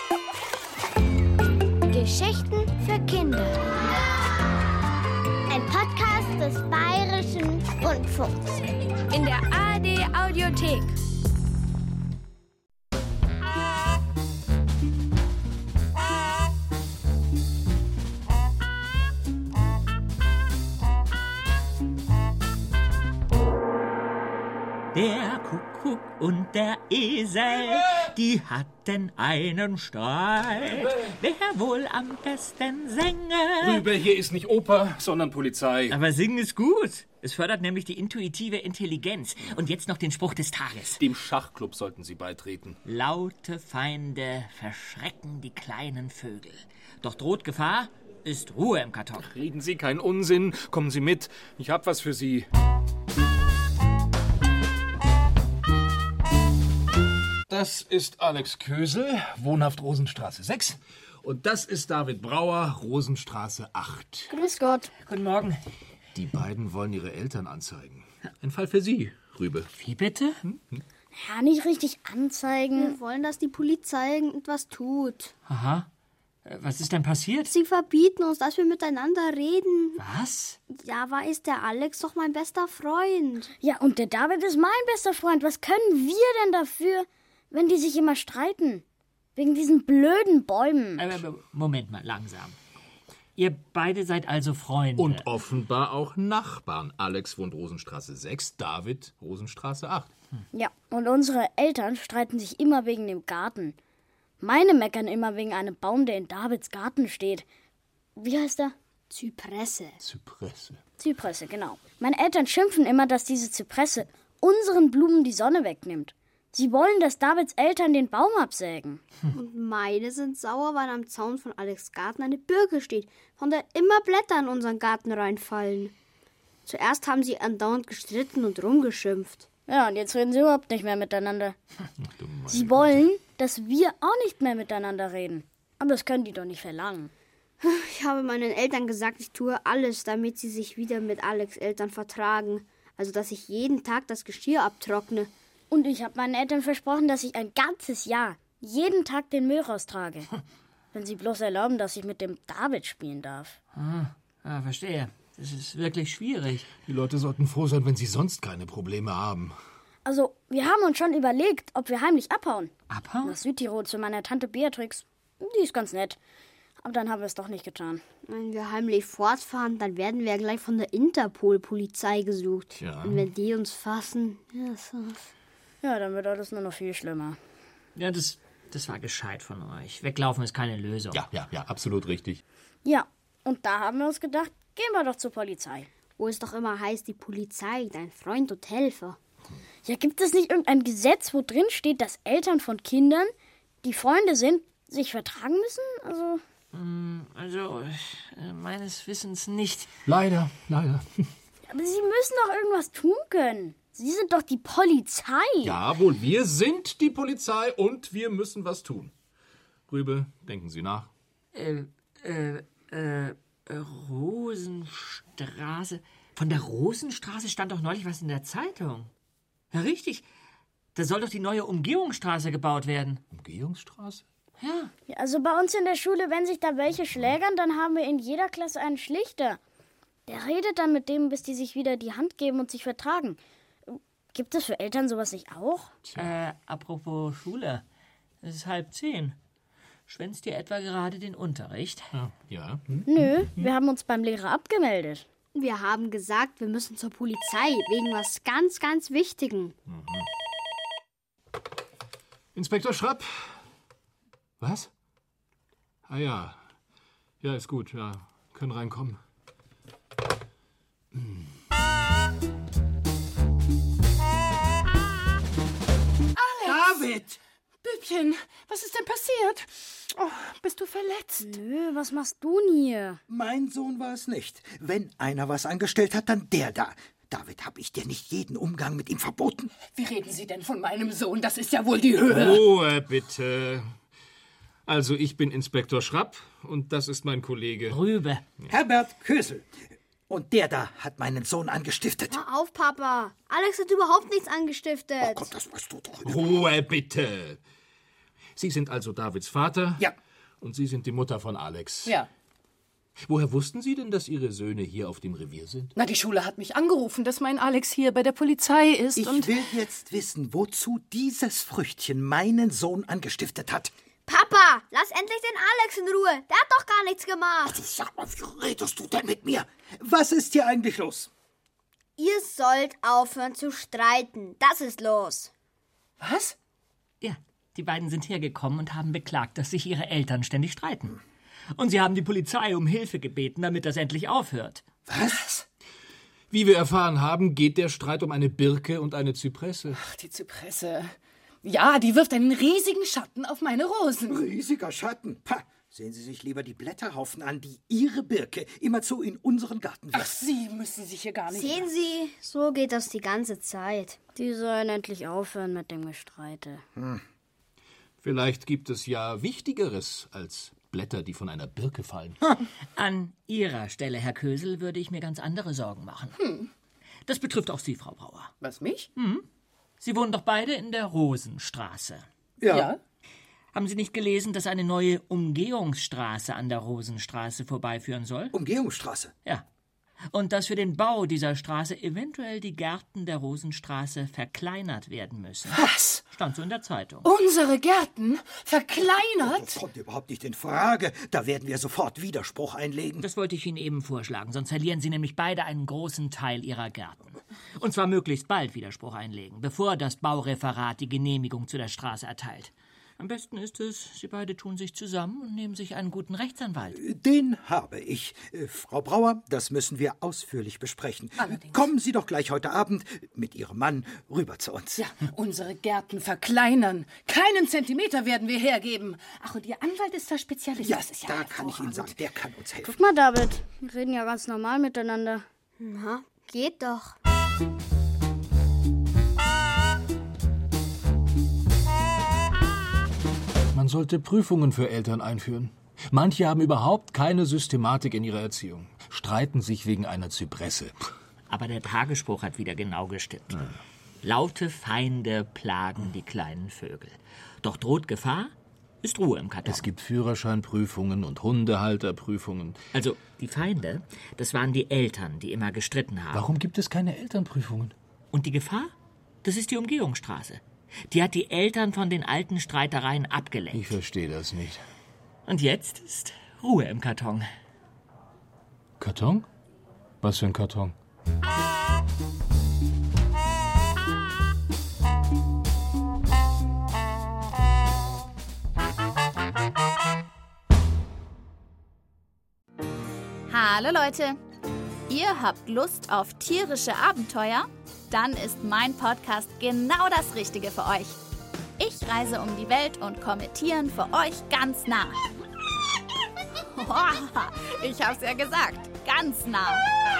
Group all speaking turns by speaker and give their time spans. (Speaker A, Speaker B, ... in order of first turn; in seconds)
Speaker A: 1.9-3.6, 5.5-8.6, 72.8-75.3, 77.5-80.0, 80.7-83.5, 109.1-110.0, 119.3-125.9, 126.7-129.4, 137.6-145.3, 168.3-175.3, 186.2-189.2, 245.5-249.7, 292.3-295.5, 314.3-317.8, 322.2-325.5, 351.5-354.2, 425.8-427.1
Speaker B: 9.1-10.9, 483.5-484.4, 485.1-491.2, 491.8-495.2, 496.7-499.9
Speaker C: 24.9-33.9, 35.9-41.0, 42.8-49.3, 65.0-65.6, 69.7-70.4, 75.5-75.9, 76.4-77.5, 80.0-80.6, 91.0-92.6, 93.3-95.2, 153.7-156.7, 162.9-163.4, 177.9-181.2, 196.7-199.9, 211.5-219.1, 219.7-220.2, 220.9-223.2, 224.6-224.9, 236.2-237.8, 238.4-239.4, 240.1-242.1, 287.9-288.4, 327.2-331.2, 331.7-334.8, 362.4-366.4, 367.2-368.5, 369.1-369.4, 370.0-372.2, 373.7-378.6, 380.3-387.3, 393.2-407.0, 441.5-449.9, 452.9-456.4, 458.3-458.9, 459.4-463.9, 465.4-467.5
Speaker D: 30.7-31.1, 33.6-36.0, 40.9-42.8, 49.2-52.5, 57.5-64.3, 66.1-69.7, 70.5-70.8, 95.0-100.1, 110.0-110.8, 132.1-133.0, 156.9-159.6, 172.8-173.2, 181.1-182.4, 200.1-201.3, 205.6-209.1, 209.9-211.1, 223.3-224.2, 236.1-236.3, 242.1-243.0, 249.9-250.3, 252.5-253.3, 254.6-254.9, 256.1-256.6, 257.4-259.2, 282.4-283.9, 284.9-288.0, 296.2-297.6, 298.6-300.0, 300.6-302.2, 303.2-305.9, 336.5-340.0, 358.2-362.4, 433.7-440.9, 449.6-452.8, 456.3-457.9, 463.7-464.8, 469.0-469.4, 470.2-470.9
Speaker E: 64.3-64.9, 71.1-73.0, 83.6-88.8, 89.3-91.2, 100.5-103.8, 104.4-107.4, 108.2-108.7, 111.0-119.0, 129.7-131.5, 132.5-137.1, 145.7-150.3, 150.9-153.6, 160.0-162.7, 163.2-166.2, 166.8-168.0, 175.8-177.4, 182.8-185.9, 189.8-193.3, 193.8-196.4, 201.7-205.8, 225.1-229.6, 230.3-235.9, 243.0-245.2, 271.4-273.2, 354.4-356.8, 422.8-425.4
Speaker F: 266.4-266.8, 267.9-269.6, 270.2-271.4, 279.9-282.5, 305.9-309.4, 326.2-326.5, 340.0-341.1, 341.6-344.4, 350.3-351.7, 368.7-369.1, 387.4-389.5, 415.2-421.8
Speaker G: 266.6-267.4, 273.3-279.7, 288.7-289.6, 290.3-292.4, 295.2-296.5, 309.1-313.9, 317.6-321.3, 344.3-350.3, 372.6-372.9, 378.5-379.3, 389.4-393.2, 406.9-415.0, 420.8-423.0